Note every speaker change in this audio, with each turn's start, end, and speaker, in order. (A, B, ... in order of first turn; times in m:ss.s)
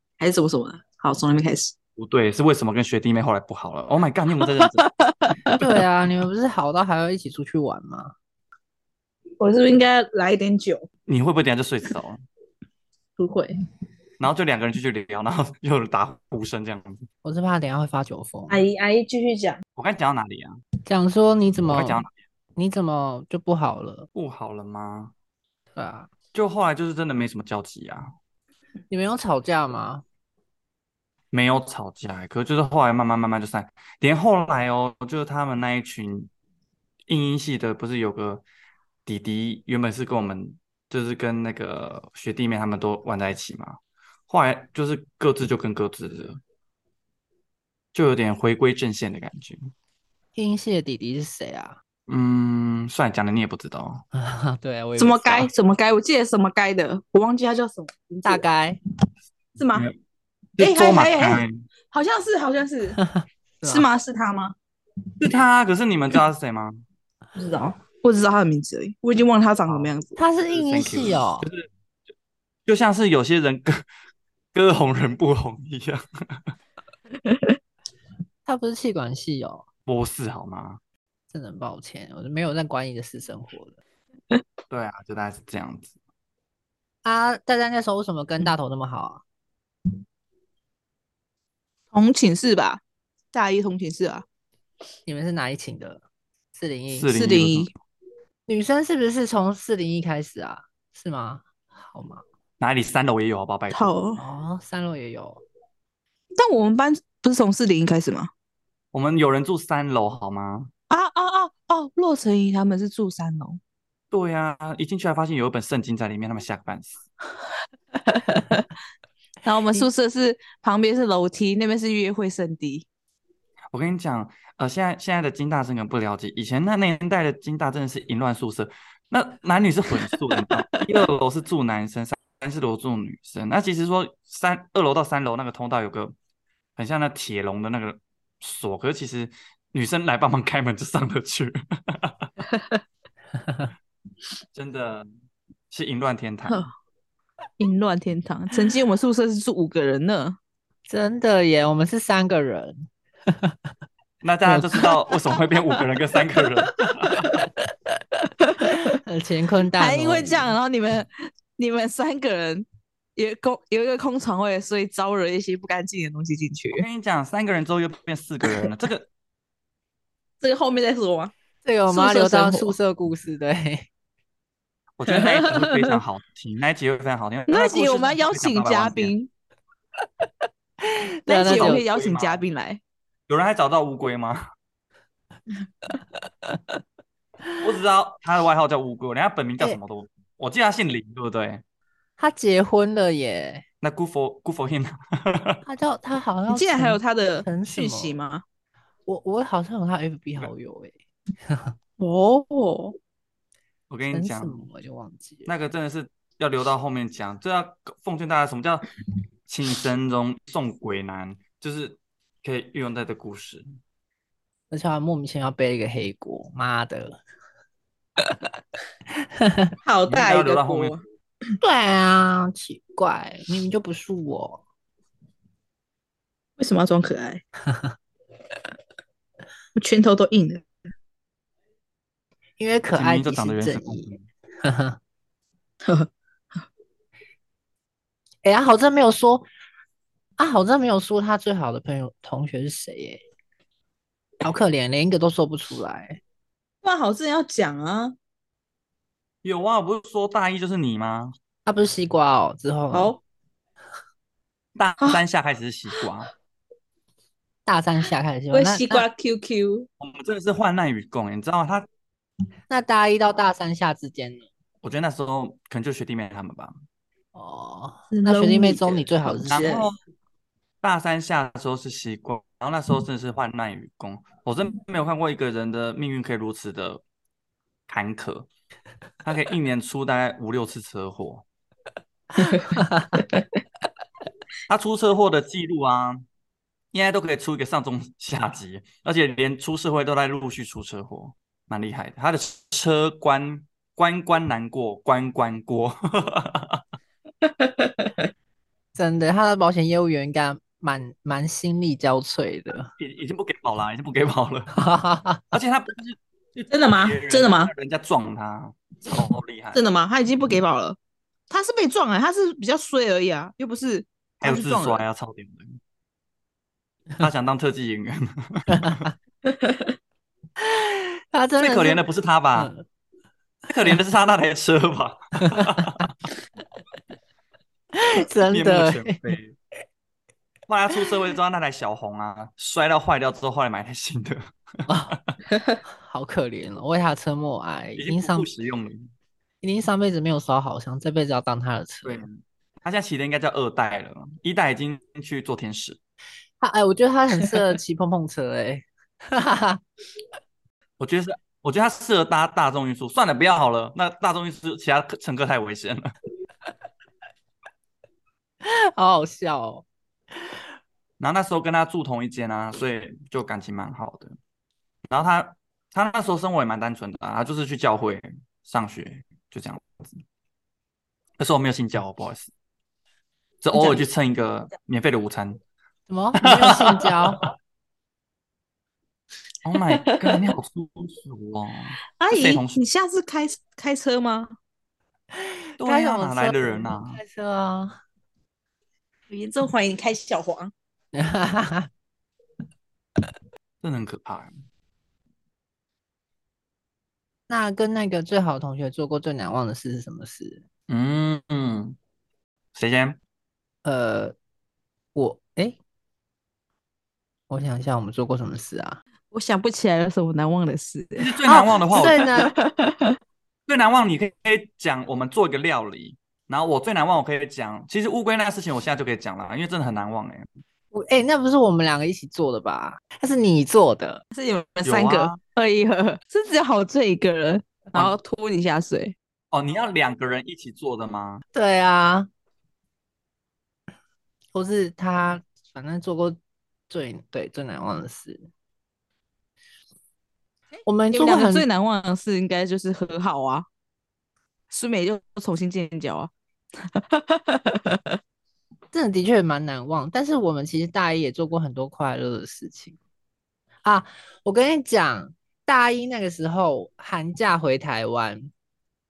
0:00.2-0:01.8 A
0:02.0-0:04.9 B
0:04.4-0:05.6 A
0:05.6-0:08.1 C
0:09.4-0:10.9 A
0:11.1-0:12.2 B
0:13.2-0:13.6 A
0:14.2-0:17.1 B
0:17.2-0:18.6 C
0:18.5-0:19.6 A
0:19.8-0:20.6 B
0:20.9-0:22.1 C
0:21.7-0:22.1 B
0:22.6-0:24.1 C
0:24.2-0:25.1 B
0:25.8-0:26.1 C
0:26.3-0:28.1 B
0:28.9-0:30.0 C
0:31.3-0:36.3 B
0:37.1-0:38.4 B
0:39.1-0:43.8 B
0:44.3-0:46.4 B
0:47.9-0:49.7 B
0:50.4-0:51.8 C
0:52.1-0:54.0 B
0:54.1-0:55.5 C
0:55.0-0:58.4 A
0:58.2-0:58.8 C
0:59.6-0:59.9 A
1:00.6-1:01.6 B
1:00.6-1:03.0 A
1:03.0-1:03.9 C
1:03.7-1:04.6 A
1:05.2-1:06.8 B
1:07.4-1:10.2 A
1:09.7-1:09.9 B
1:10.2-1:11.5 C
1:10.5-1:11.7 B
1:12.7-1:13.9 B
1:14.5-1:16.6 B
1:17.1-1:17.6 A
1:18.5-1:19.6 C
1:19.9-1:20.8 B
1:21.3-1:23.8 C
1:24.7-1:25.9 B
1:27.0-1:29.2 C
1:31.9-1:32.8 A
1:33.3-1:34.2 A
1:35.1-1:36.0 C
1:36.6-1:37.1 C
1:36.9-1:37.7 B
1:37.1-1:37.7 A
1:38.5-1:42.2 C
1:42.6-1:43.9 B
1:43.7-1:44.2 A
1:44.2-1:45.4 C
1:46.4-1:48.3 A
1:48.9-1:50.7 B
1:50.9-1:53.6 A
1:54.1-1:57.0 B
1:58.1-1:58.7 A
1:59.4-2:02.9 A
2:03.7-2:16.2 B
2:10.1-2:10.8 A
2:16.8-2:22.3 B
2:22.5-2:22.8 A
2:23.4-2:23.7 C
2:24.5-2:25.1 B
2:25.7-2:26.7 B
2:27.6-2:30.4 A
2:30.9-2:33.6 C
2:34.2-2:37.5 B
2:38.4-2:39.0 A
2:38.6-2:40.5 C
2:39.8-2:46.9 A
2:46.7-2:49.1 B
2:50.4-2:51.3 A
2:51.6-2:53.9 C
2:51.9-2:52.8 A
2:55.0-2:59.1 B
2:55.1-2:56.0 A
2:57.5-2:59.3 A
3:00.8-3:01.8 C
3:01.3-3:02.8 A
3:01.4-3:02.5 B
3:03.3-3:04.4 B
3:07.6-3:11.6 B
3:12.2-3:13.6 C
3:13.8-3:15.6 B
3:15.6-3:18.2 C
3:16.5-3:18.4 A
3:19.1-3:21.7 C
3:22.0-3:23.0 A
3:23.9-3:24.6 B
3:24.1-3:25.5 C
3:25.5-3:28.8 B
3:29.5-3:33.7 B
3:34.7-3:37.2 C
3:39.4-3:39.7 C
3:39.8-3:41.0 A
3:40.1-3:41.0 B
3:41.6-3:44.6 C
3:46.6-3:47.4 A
3:47.7-3:47.9 C
3:49.8-3:50.6 A
3:52.6-3:55.0 C
3:52.9-3:54.2 B
3:55.8-3:56.1 A
3:58.4-3:59.5 C
4:00.4-4:03.2 C
4:04.4-4:06.2 C
4:06.8-4:08.2 A
4:09.4-4:11.3 B
4:11.7-4:13.2 C
4:12.9-4:13.2 A
4:14.8-4:16.3 B
4:17.7-4:19.1 C
4:18.5-4:19.9 A
4:20.0-4:21.9 B
4:22.7-4:24.4 C
4:24.8-4:26.8 B
4:27.4-4:29.7 C
4:28.1-4:29.9 A
4:29.5-4:30.0 B
4:30.8-4:37.0 B
4:37.9-4:38.5 B
4:39.2-4:41.4 B
4:42.4-4:43.4 A
4:42.8-4:43.2 C
4:44.7-4:46.2 B
4:46.9-4:56.8 B
4:57.4-4:58.3 A
4:59.0-5:02.9 C
5:03.0-5:04.7 B
5:04.7-5:05.4 C
5:05.5-5:09.8 B
5:06.7-5:07.7 A
5:09.7-5:11.0 A
5:11.5-5:15.0 A
5:14.4-5:15.8 B
5:17.2-5:19.1 B
5:18.7-5:19.0 C
5:19.4-5:19.9 A
5:20.6-5:22.0 C
5:21.6-5:22.7 B
5:22.6-5:22.8 C
5:23.7-5:26.1 B
5:25.4-5:26.0 C
5:28.0-5:29.2 C
5:28.5-5:29.6 B
5:30.7-5:35.4 B
5:34.9-5:35.2 C
5:35.9-5:38.5 C
5:38.0-5:39.1 B
5:39.6-5:42.3 C
5:42.0-5:46.0 B
5:46.6-5:49.8 C
5:51.0-5:56.2 B
5:58.6-5:59.9 C
6:01.2-6:04.4 B
6:05.1-6:10.2 B
6:11.4-6:12.5 B
6:13.6-6:15.6 B
6:13.7-6:14.0 C
6:16.1-6:17.5 C
6:16.4-6:17.5 B
6:19.6-6:22.8 B
6:19.9-6:20.4 A
6:22.2-6:24.6 A
6:25.4-6:28.0 C
6:25.8-6:27.2 B
6:29.3-6:30.7 A
6:31.1-6:31.9 C
6:33.8-6:34.6 B
6:37.5-6:40.6 C
6:40.9-6:42.0 B
6:42.8-6:43.2 B
6:43.8-6:44.4 C
6:45.2-6:45.8 C
6:47.5-6:49.0 C
6:49.3-6:53.2 A
6:51.2-6:52.3 B
6:51.4-6:52.5 C
6:53.7-7:00.5 B
7:00.9-7:04.2 C
7:04.3-7:09.2 A
7:04.8-7:05.4 B
7:09.5-7:11.4 B
7:11.5-7:12.3 C
7:14.5-7:16.4 C
7:16.9-7:18.5 C
7:20.9-7:21.7 C
7:21.1-7:23.7 A
7:24.7-7:28.2 A
7:28.9-7:33.0 C
7:33.8-7:38.5 C